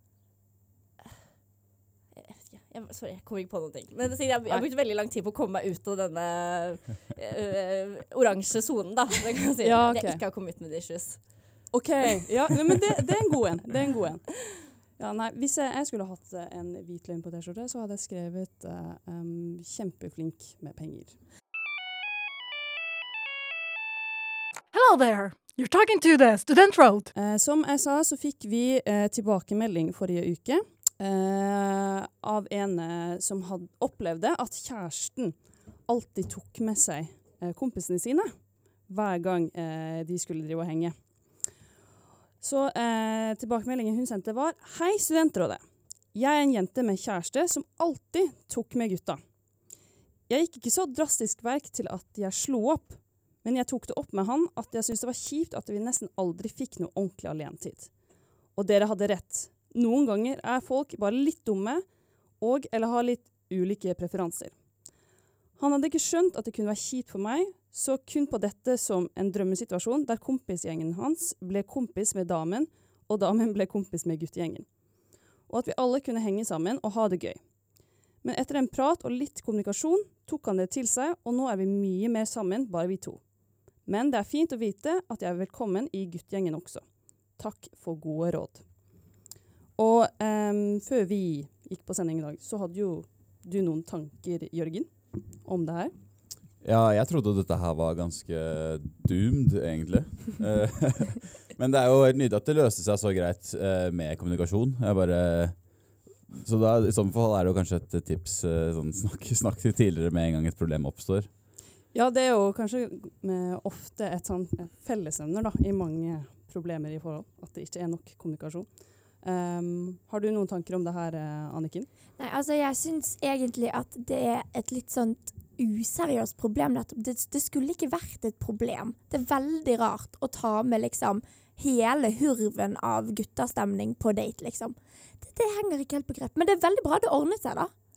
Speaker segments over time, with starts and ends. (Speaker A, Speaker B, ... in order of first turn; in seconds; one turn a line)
Speaker A: 2.1-11.7
Speaker B: 9.6-10.2
Speaker B: 11.7-21.1
Speaker C: 24.7-27.1
Speaker B: 27.1-41.1
Speaker B: 42.4-49.2
Speaker B: 50.3-57.9
Speaker B: 58.5-61.9
Speaker B: 62.4-64.6
Speaker B: 65.6-74.7
Speaker B: 75.4-77.4
Speaker B: 78.2-83.2
Speaker B: 83.8-88.7
Speaker B: 89.8-95.9
Speaker D: 96.6-105.6
Speaker D: 106.3-111.3
Speaker B: 111.9-121.9
Speaker E: 122.2-137.7